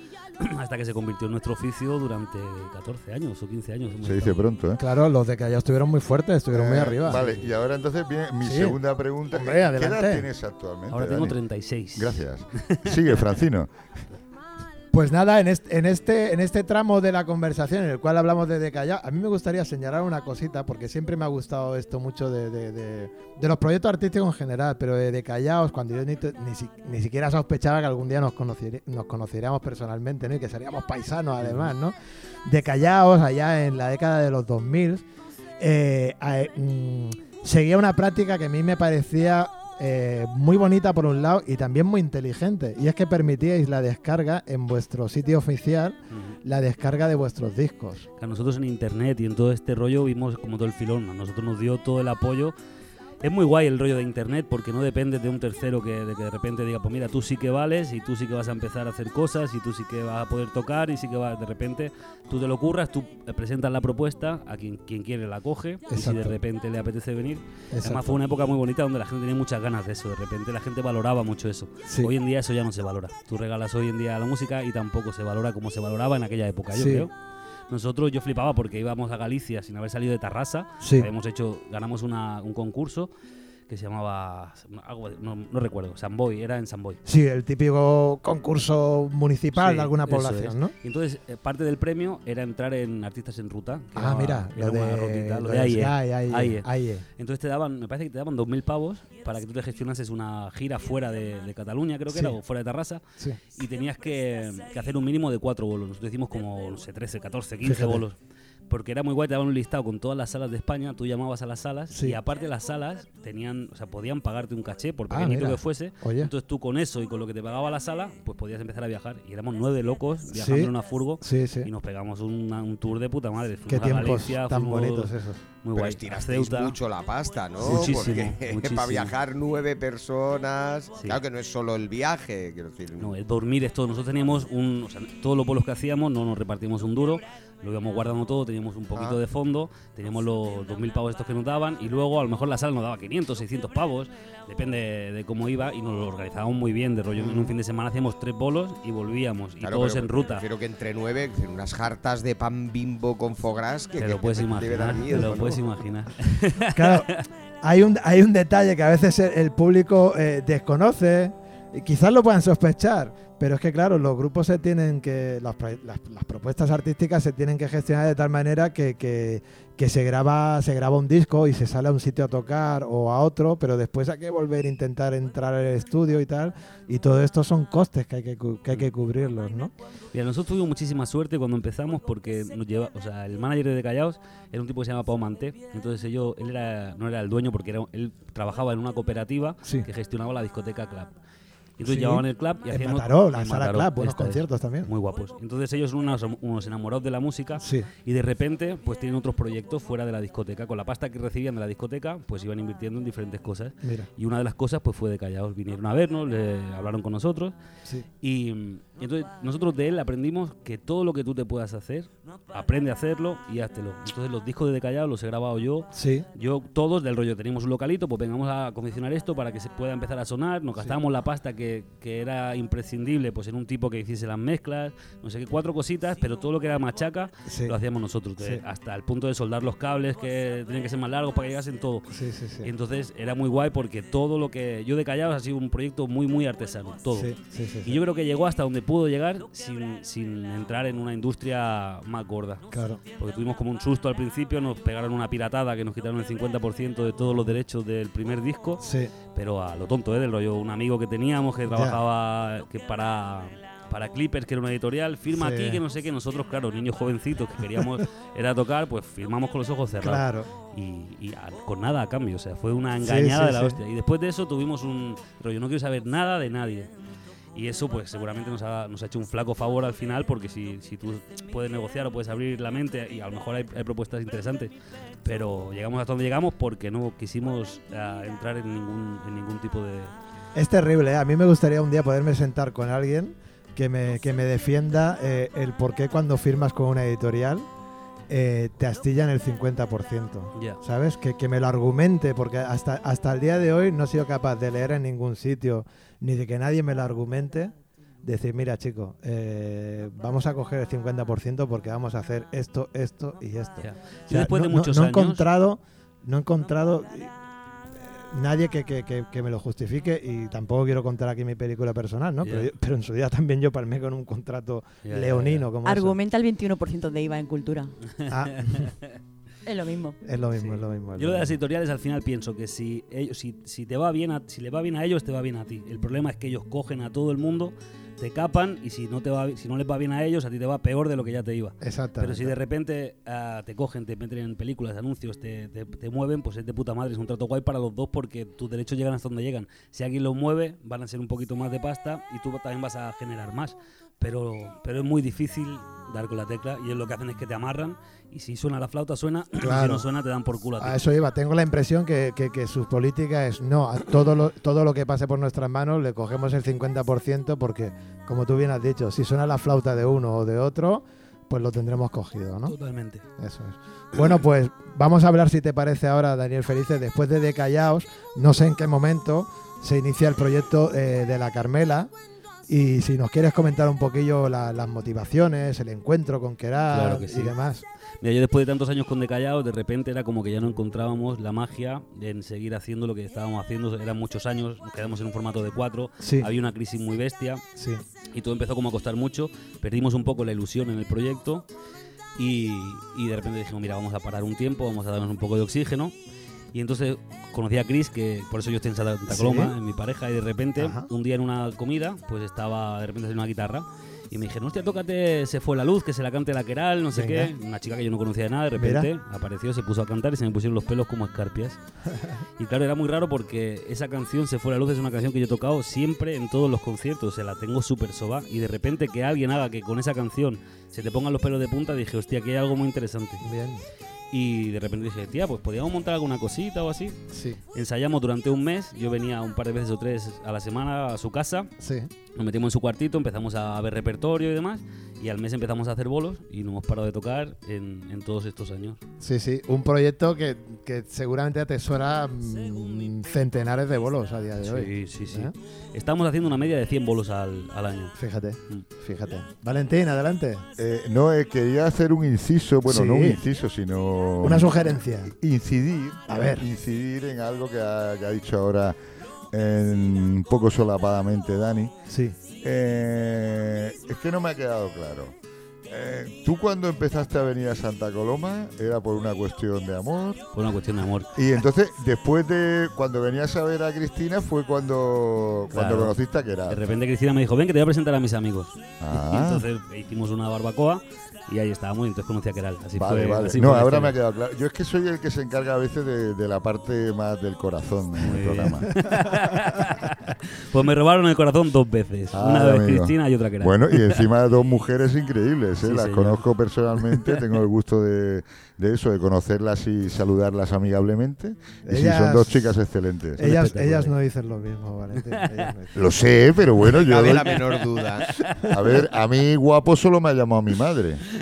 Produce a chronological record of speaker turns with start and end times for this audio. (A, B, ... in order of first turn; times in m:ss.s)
0:00.4-0:04.4 A
0:04.0-0:04.8 B
0:04.8-0:07.2 C
0:06.5-0:11.4 B
0:07.1-0:07.4 A
0:08.4-0:08.8 C
0:09.3-0:10.3 C
0:10.9-0:12.8 A
0:12.0-0:13.9 B
0:14.9-0:31.9 C
0:31.4-0:31.7 A
0:32.4-0:35.0 C
0:35.6-0:48.1 C
0:48.2-0:52.5 A
0:53.2-1:17.1 A
1:05.9-1:06.4 C
1:07.7-1:08.2 C
1:11.9-1:12.1 C
1:16.7-1:17.1 C
1:17.7-1:23.1 A
1:20.8-1:21.1 C
1:23.7-1:27.0 A
1:27.0-1:30.7 C
1:29.6-1:43.0 A
1:34.0-1:37.0 C
1:42.1-1:42.4 C
1:43.5-1:48.2 A
1:47.6-1:48.0 C
1:48.7-2:06.7 A
1:51.9-1:52.2 C
1:55.1-1:56.3 C
2:00.3-2:01.7 C
2:03.7-2:05.4 C
2:05.8-2:13.1 D
2:07.6-2:09.1 A
2:07.6-2:08.3 C
2:13.0-2:30.5 A
2:29.6-2:35.6 D
2:34.0-2:37.2 A
2:35.1-2:35.6 C
2:36.7-2:37.1 C
2:37.6-2:59.7 C
3:00.1-3:11.1 A
3:11.8-3:27.5 A
3:11.9-3:14.9 C
3:17.6-3:17.9 C
3:23.8-3:24.1 C
3:28.2-3:52.1 A
3:35.9-3:36.3 C
3:47.5-3:47.8 C
3:52.1-3:52.7 C
3:52.6-3:57.3 A
3:57.1-3:58.0 C
3:57.8-4:02.6 A
4:02.7-4:03.0 C
4:03.2-4:08.8 A
4:08.8-4:09.1 C
4:09.4-4:26.9 A
4:11.7-4:12.0 C
4:15.3-4:15.8 C
4:20.0-4:20.5 C
4:23.0-4:23.8 C
4:27.6-4:34.7 A
4:35.2-4:40.1 A
4:40.6-4:47.7 C
4:48.3-5:07.3 C
4:50.6-4:50.8 A
5:03.8-5:05.5 A
5:08.0-5:16.2 C
5:12.4-5:12.7 A
5:15.0-5:15.7 A
5:15.8-5:17.9 E
5:18.3-5:18.9 C
5:18.4-5:19.0 A
5:19.7-5:20.2 E
5:20.2-5:21.5 C
5:20.6-5:51.0 A
5:31.8-5:32.6 C
5:49.6-5:50.1 C
5:50.8-6:02.8 C
6:02.7-6:03.2 A
6:03.4-6:12.1 C
6:12.7-6:17.8 C
6:16.9-6:17.6 A
6:18.2-6:27.6 A
6:26.2-6:26.5 C
6:27.8-6:28.0 C
6:28.3-6:31.7 A
6:32.4-6:36.1 A
6:36.7-6:51.8 A
6:39.3-6:39.7 C
6:40.8-6:41.1 C
6:47.1-6:47.5 C
6:48.8-6:49.1 C
6:52.6-7:03.4 A
7:03.4-7:03.8 C
7:04.3-7:07.2 A
7:07.3-7:07.6 C
7:07.7-7:11.7 A
7:11.8-7:12.1 C
7:12.4-7:19.0 A
7:19.2-7:25.5 C
7:24.6-7:28.2 A
7:28.2-7:30.7 C
7:30.8-7:39.0 B
7:32.8-7:33.4 C
7:34.4-7:35.3 C
7:36.3-7:36.6 C
7:39.5-7:42.0 B
7:42.1-7:42.4 C
7:42.6-7:45.3 B
7:45.9-7:50.4 B
7:50.5-7:51.3 A
7:51.3-7:56.9 B
7:55.7-7:56.2 A
7:56.7-8:04.2 A
7:59.0-7:59.7 B
8:03.0-8:08.9 B
8:08.2-8:14.2 A
8:12.3-8:23.4 B
8:15.8-8:16.4 A
8:17.1-8:17.4 A
8:21.9-8:22.7 C
8:23.4-8:26.1 C
8:23.4-8:24.1 A
8:25.4-8:25.6 A
8:25.9-8:27.6 B
8:26.8-8:28.3 D
8:28.4-8:28.6 A
8:28.7-8:31.2 B